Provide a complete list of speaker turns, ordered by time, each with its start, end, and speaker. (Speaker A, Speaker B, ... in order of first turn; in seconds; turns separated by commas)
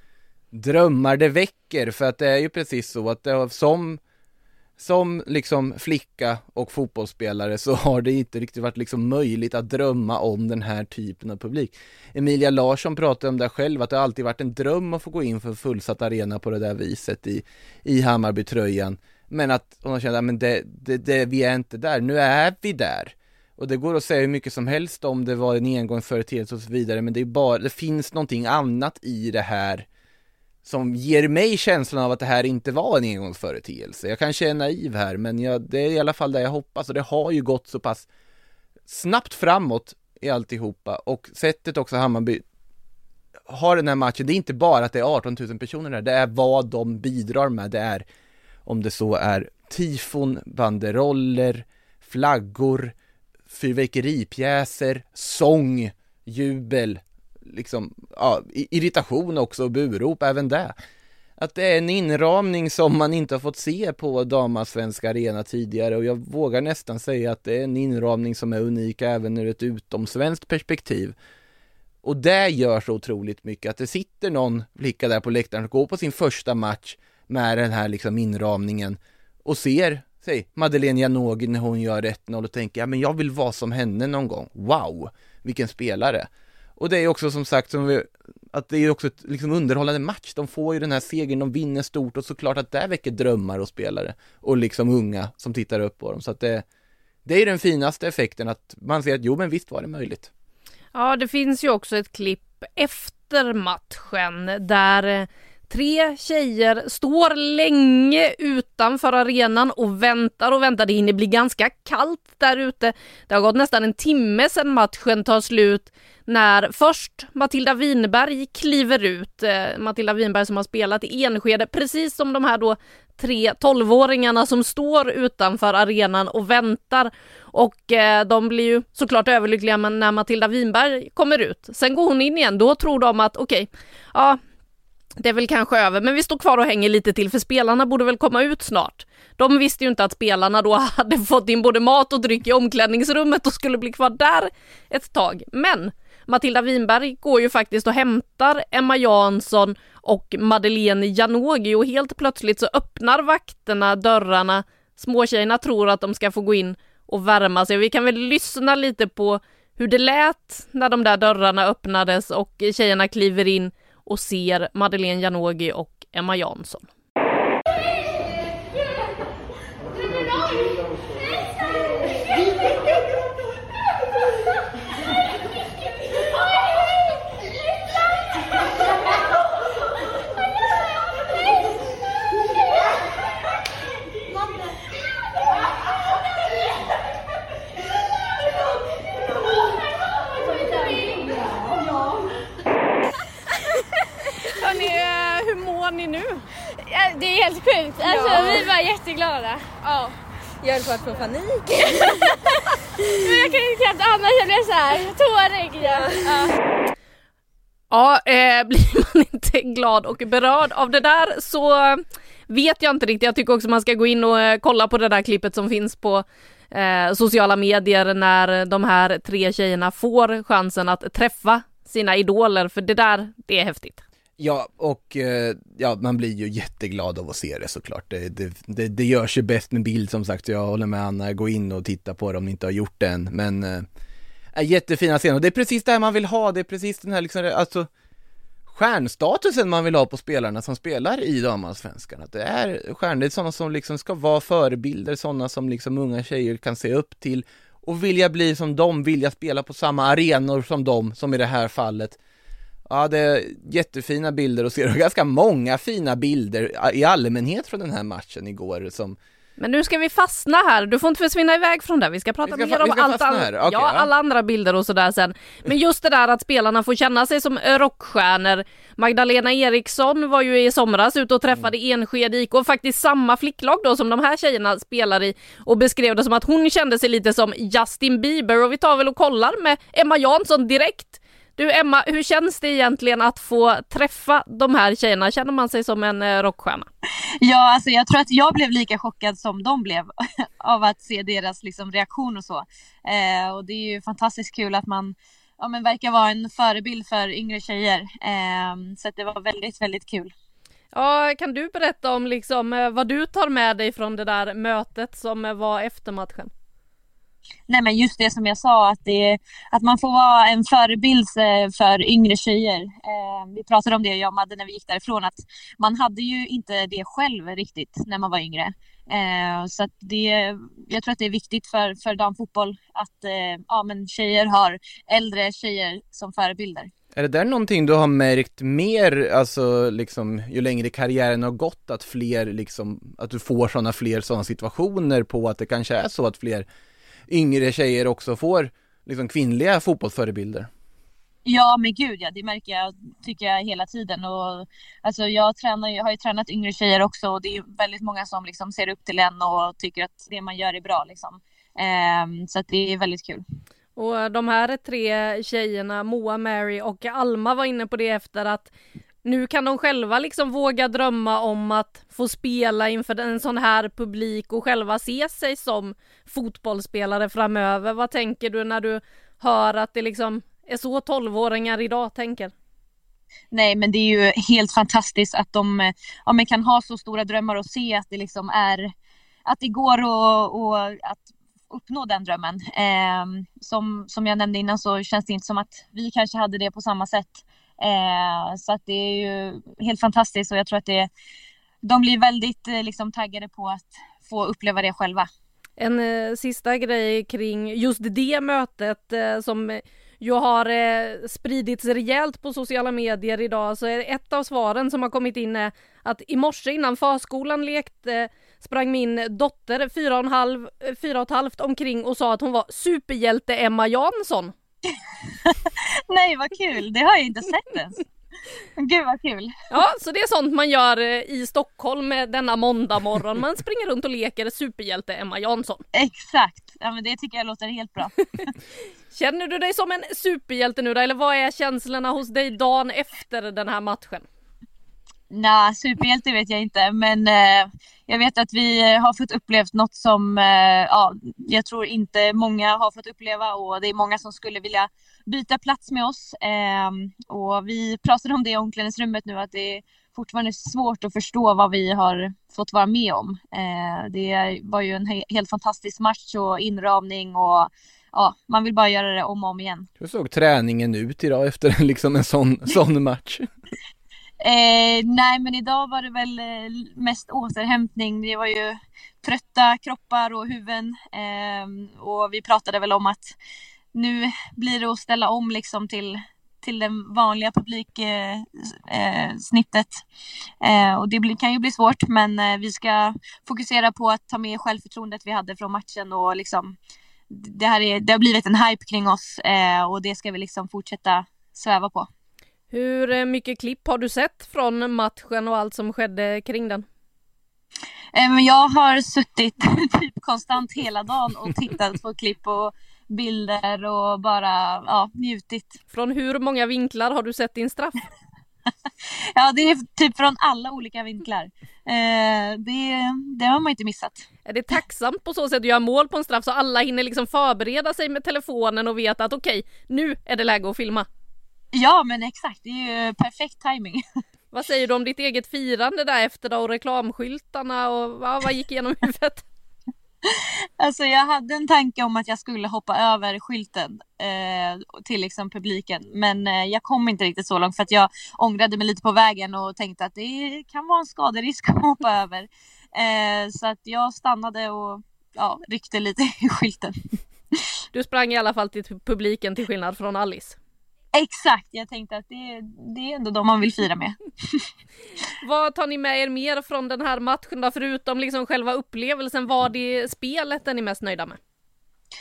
Speaker A: 0.5-4.0, Speaker A: 4.8-29.9, Speaker A: 30.6-38.1, Speaker A: 38.9-42.4, Speaker A: 43.5-48.0, Speaker A: 48.7-53.0, Speaker A: 53.5-60.8, Speaker A: 61.4-71.2, Speaker A: 72.0-96.7, Speaker A: 97.3-100.3, Speaker B: 100.9-134.4, Speaker B: 135.2-166.9, Speaker B: 194.6-196.5, Speaker C: 196.8-199.8, Speaker B: 198.0-198.7, Speaker B: 199.8-200.1, Speaker B: 200.6-201.6, Speaker C: 201.7-202.4, Speaker C: 203.1-206.6, Speaker B: 205.8-206.3, Speaker B: 207.9-224.0, Speaker A: 224.4-233.9, Speaker A: 234.5-237.9, Speaker A: 238.7-252.2, Speaker A: 252.9-259.2, Speaker B: 259.6-286.9, Speaker A: 262.4-264.1, Speaker D: 287.4-300.3, Speaker B: 300.9-306.5, Speaker D: 307.7-326.9, Speaker A: 327.1-336.7, Speaker A: 337.3-340.7, Speaker D: 341.5-353.4, Speaker B: 354.0-358.7, Speaker B: 359.2-372.5, Speaker D: 373.5-378.9, Speaker D: 379.5-391.1, Speaker D: 391.8-395.3, Speaker B: 395.8-414.5, Speaker D: 414.9-418.1, Speaker D: 418.8-419.5, Speaker B: 419.7-425.8, Speaker D: 425.9-428.2, Speaker B: 429.1-434.2, Speaker D: 435.3-459.9, Speaker A: 460.0-463.5, Speaker D: 464.4-473.4, Speaker D: 473.9-480.0, Speaker D: 480.6-486.8, Speaker D: 487.3-492.1, Speaker B: 492.7-496.9, Speaker D: 498.1-505.8, Speaker B: 505.9-508.0, Speaker D: 509.4-514.3, Speaker B: 514.5-521.1, Speaker D: 521.7-524.0, Speaker B: 524.5-529.5, Speaker D: 530.3-547.0, Speaker B: 547.9-550.6, Speaker D: 551.1-554.7, Speaker B: 555.4-561.4